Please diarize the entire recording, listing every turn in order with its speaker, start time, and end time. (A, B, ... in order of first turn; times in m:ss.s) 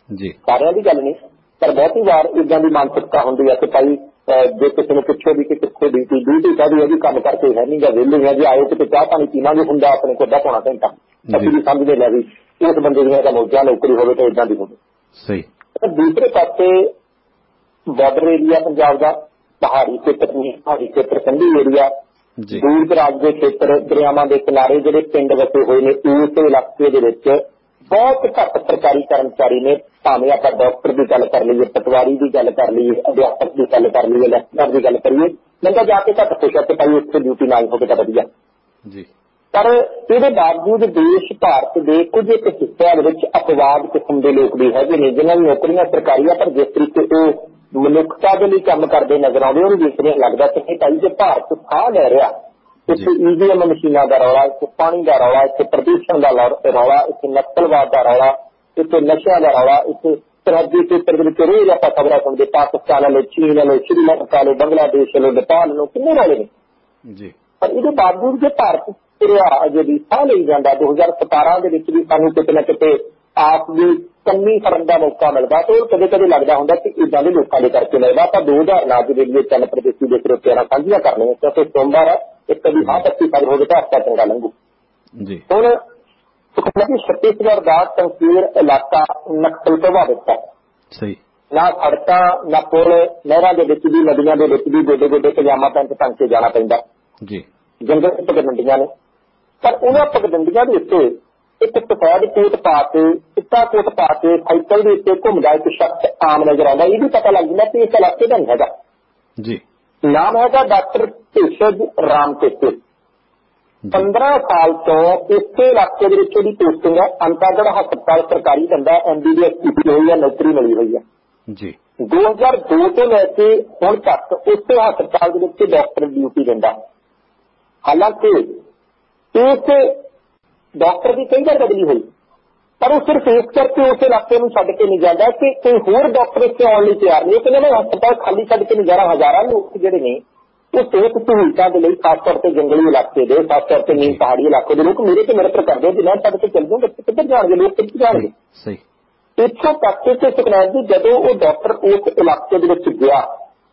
0:00.4-0:14.8 A
0:15.2-0:15.5 B
0:15.8-0:16.9 A
0:17.9-0:21.9 A
0:22.4-0:22.6 B
0:22.5-0:38.3 A
0:39.5-0:52.3 A
0:52.9-1:06.5 A
1:07.1-1:07.3 B
1:07.6-1:24.5 A
1:25.2-1:25.4 B
1:25.5-1:25.8 A
1:26.6-1:30.4 A
1:30.9-1:31.2 B
1:31.5-1:36.8 A
1:37.8-1:38.9 A
1:39.6-1:48.7 A
1:50.0-1:52.8 A
1:53.9-2:01.0 A
2:01.5-2:01.8 B
2:02.0-2:06.7 A
2:07.8-2:08.6 A
2:09.3-2:10.0 A
2:10.8-2:12.0 A
2:12.8-2:20.2 A
2:20.7-2:28.3 A
2:23.9-2:24.2 B
2:28.2-2:28.8 B
2:29.4-2:33.3 A